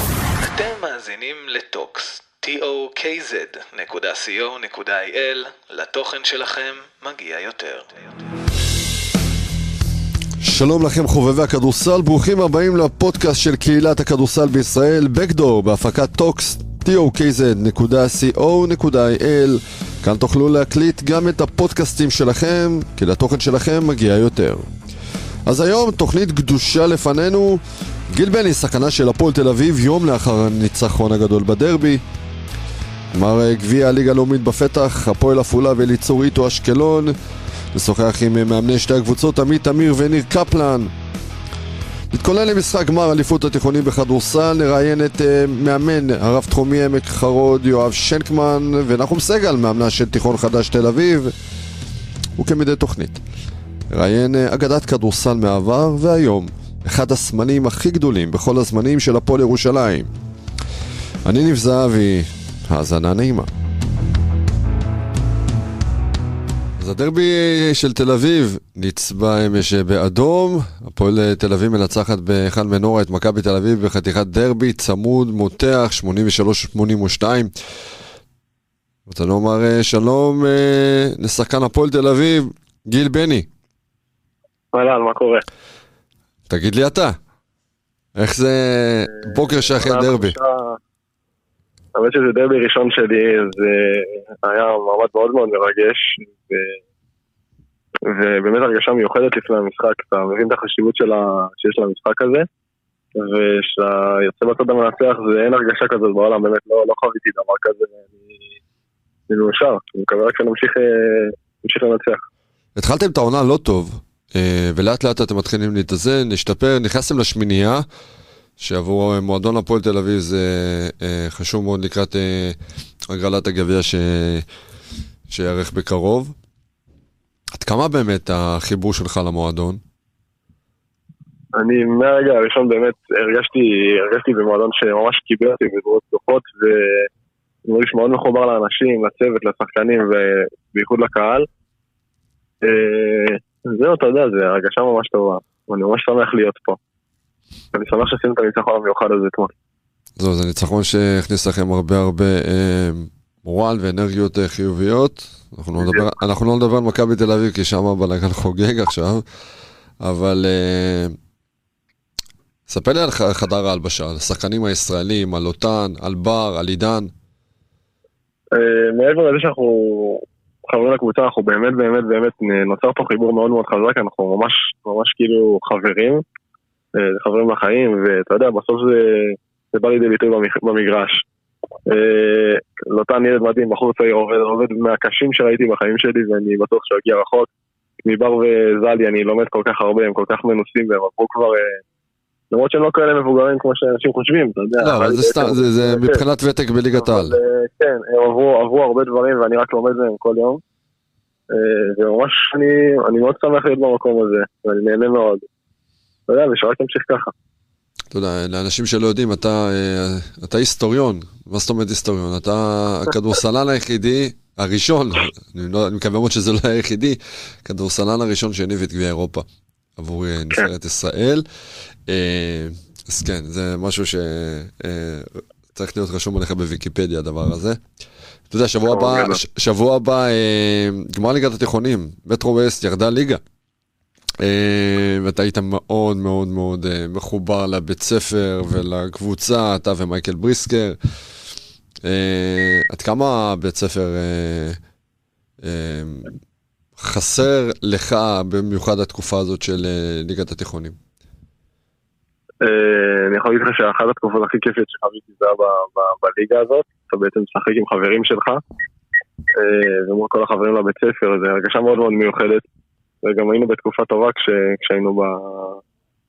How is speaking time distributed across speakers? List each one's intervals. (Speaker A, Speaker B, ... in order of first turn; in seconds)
Speaker A: 0.4-8.3
Speaker B: 10.4-24.7, 25.4-32.0, 33.1-37.1, 37.7-40.9, 42.1-51.3, 52.4-53.2, 53.9-60.1, 61.2-63.5, 66.8-77.5, 79.1-83.5, 86.5-87.2, 88.2-90.3, 112.8-117.8, 118.6-122.6, 123.1-124.5, 125.3-126.3, 127.6-129.8, 150.2-159.2, 160.0-161.2, 162.7-167.1, 194.8-197.3, 208.1-219.4, 220.0-221.4, 222.1-227.8, 228.5-233.4, 234.4-241.0, 242.0-244.8, 245.6-246.3, 247.0-251.0
Speaker C: 84.7-85.4, 89.2-90.8, 91.9-96.8, 98.0-102.5, 103.2-108.5, 109.3-112.2, 131.5-137.1, 137.7-141.5, 142.6-146.8, 147.7-149.5, 168.5-176.2, 176.9-181.2, 181.9-187.5, 188.0-191.8, 192.5-196.2, 197.0-200.6, 201.5-205.5, 206.3-207.3, 228.9-229.4, 252.6-258.6, 259.6-262.6, 263.2-265.8